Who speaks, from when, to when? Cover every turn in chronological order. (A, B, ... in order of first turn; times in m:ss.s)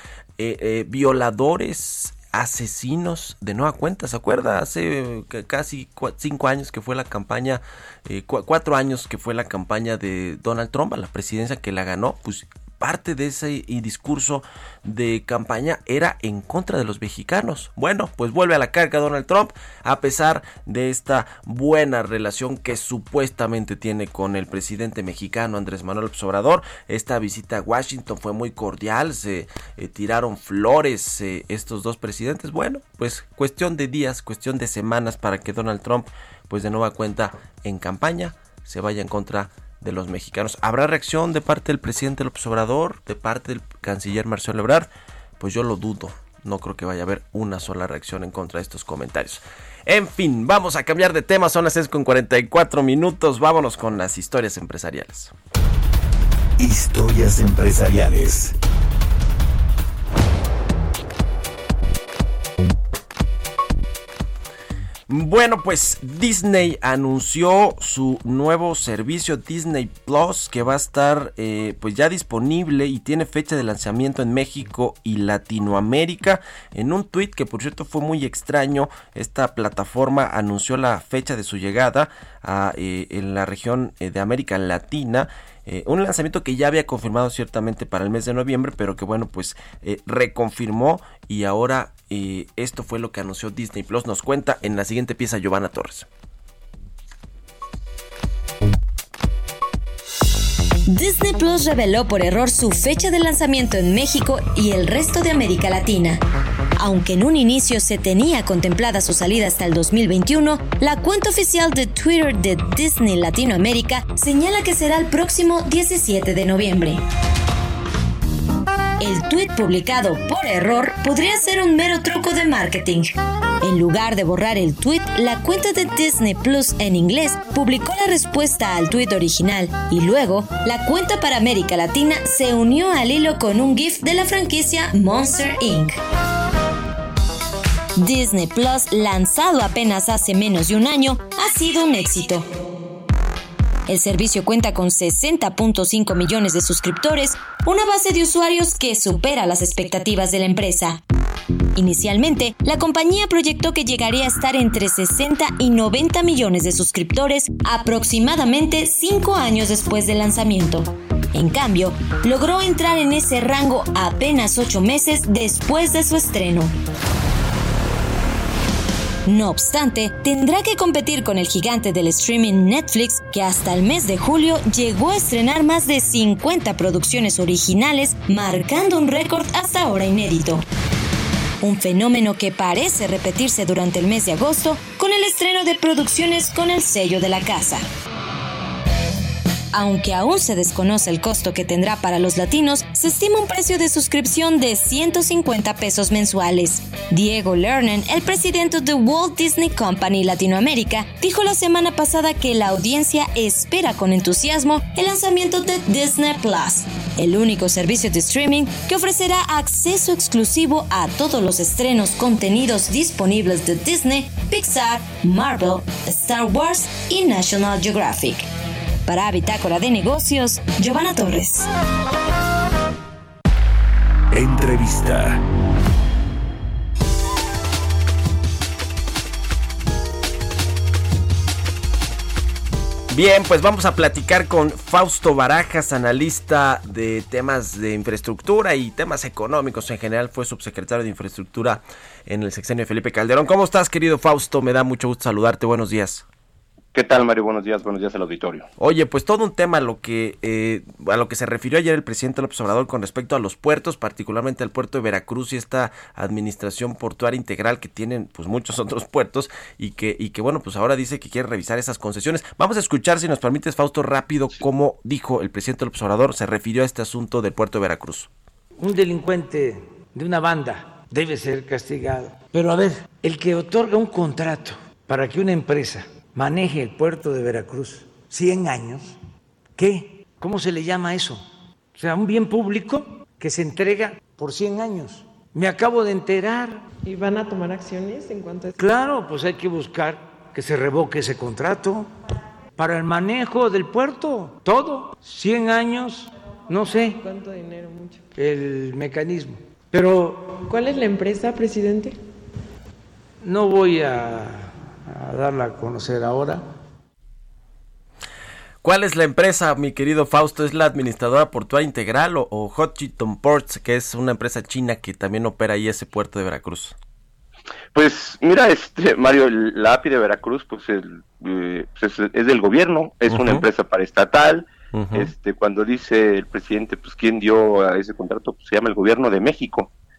0:00.4-0:55.3 A
0:56.6-0:58.5 B
1:05.1-1:36.1 A
1:40.9-1:46.2 C
1:46.8-1:57.0 C
1:59.0-2:03.1 C
2:03.6-2:16.0 C
2:18.0-2:22.5 C
2:23.9-2:31.0 C
2:31.8-2:46.7 C
2:49.3-3:00.6 C
3:01.6-3:07.8 C
3:09.7-3:38.5 C
3:39.1-3:41.7 C
3:44.3-3:45.4 B
3:53.1-4:06.3 A
4:06.9-4:08.7 D
4:08.8-4:28.3 A
4:28.8-4:39.2 E
4:39.8-4:46.9 E
4:47.0-4:48.9 F
4:48.8-4:52.1 E
4:52.8-4:57.2 E
4:57.2-4:58.3 F
4:58.4-5:00.6 E
5:00.6-5:02.2 F
5:03.4-5:06.6 E
5:08.8-5:17.0 A
5:17.9-5:29.9 D
5:23.3-5:23.6 A
5:24.9-5:25.3 A